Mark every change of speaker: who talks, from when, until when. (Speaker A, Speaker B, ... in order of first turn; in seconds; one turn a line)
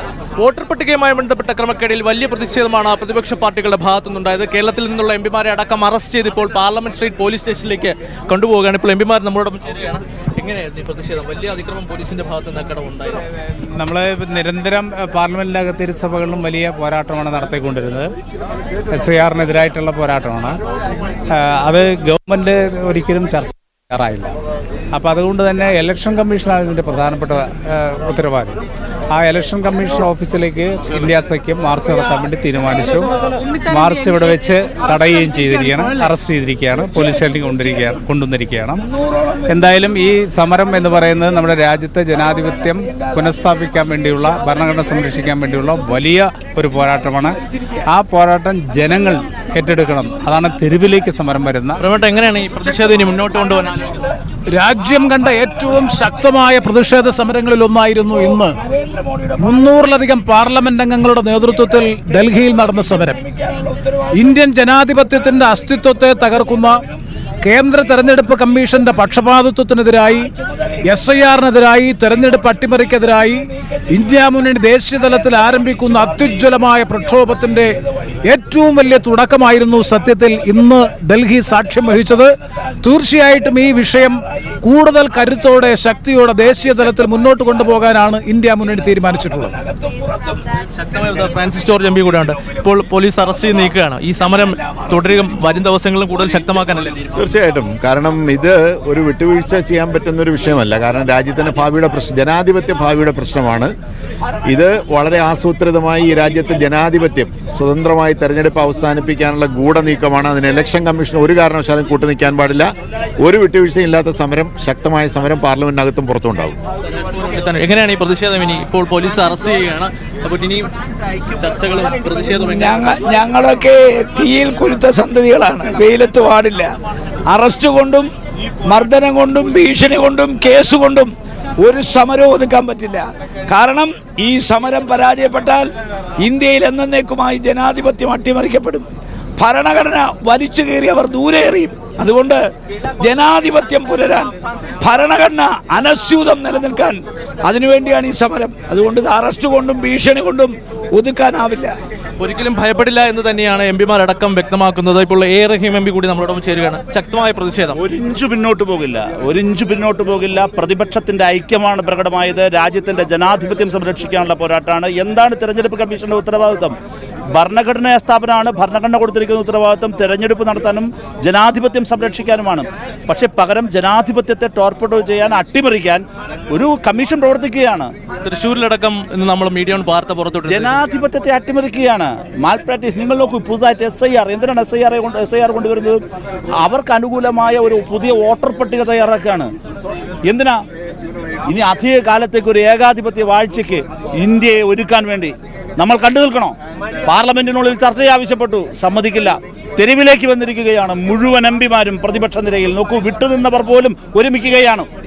Speaker A: 0.4-13.2
Speaker B: 13.6-18.1
Speaker B: 18.9-20.6
Speaker B: 21.3-24.3
Speaker B: 24.9-28.6
Speaker B: 29.1-38.9
Speaker B: 39.5-47.4
Speaker B: 47.9-51.8
Speaker A: 51.8-54.0
Speaker C: 54.5-58.6
Speaker D: 58.9-59.2
Speaker C: 59.4-63.3
Speaker C: 64.1-66.8
Speaker C: 67.4-70.3
Speaker C: 70.8-89.5
Speaker A: 90.8-97.1
Speaker E: 97.2-103.7
Speaker E: 104.5-112.7
Speaker E: 113.2-116.6
Speaker A: 117.0-120.7
Speaker A: 121.3-123.2
Speaker D: 122.5-126.7
Speaker D: 127.3-128.1
Speaker D: 128.6-135.7
Speaker D: 136.2-138.9
Speaker D: 139.4-142.4
Speaker D: 143.0-144.3
Speaker D: 144.8-151.7
Speaker A: 152.2-157.8
Speaker F: 157.8-166.8
Speaker F: 167.3-177.9
Speaker A: 178.2-180.8
Speaker F: 180.4-186.0
Speaker F: 186.6-189.5
Speaker F: 190.2-190.6
Speaker F: 191.4-196.5
Speaker F: 197.1-204.9